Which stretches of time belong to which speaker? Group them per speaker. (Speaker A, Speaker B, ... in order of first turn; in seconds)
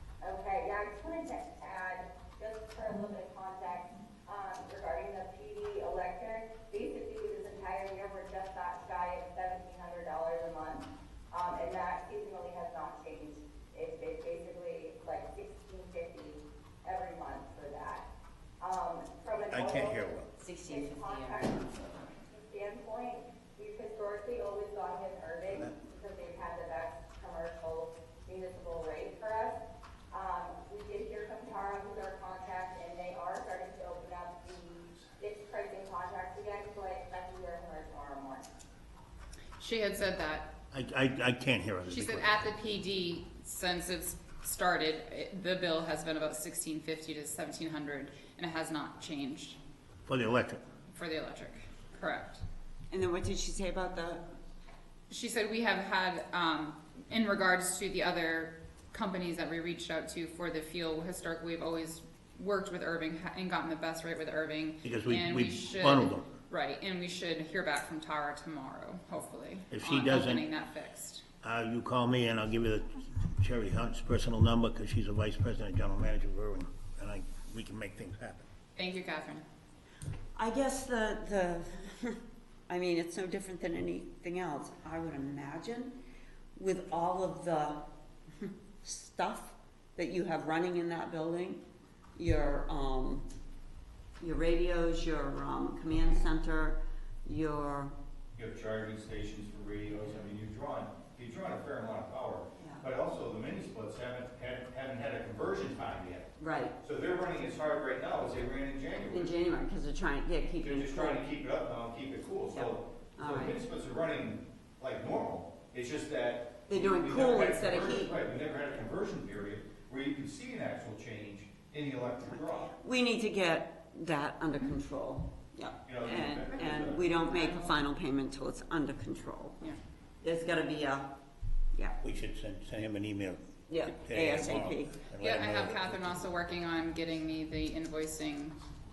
Speaker A: 0.2-18.0, 18.6-29.6, 30.1-38.5
Speaker B: 19.5-20.3, 40.7-42.3, 50.1-50.6, 64.8-66.3, 69.7-70.4, 71.4-78.5, 132.0-136.2
Speaker C: 20.4-21.8, 52.9-54.2, 80.3-86.0, 86.6-87.8, 88.4-91.6, 92.2-93.3, 94.2-97.9, 102.6-102.8, 106.4-106.7, 109.1-111.3, 112.5-113.6, 116.7-118.2, 122.4-129.6, 130.2-131.1, 133.7-134.9
Speaker D: 39.6-40.5, 41.9-49.6, 50.9-52.4, 55.1-71.2, 78.8-79.4, 126.5-127.8, 135.2-138.6
Speaker E: 98.3-109.3, 110.6-122.7, 125.9-127.2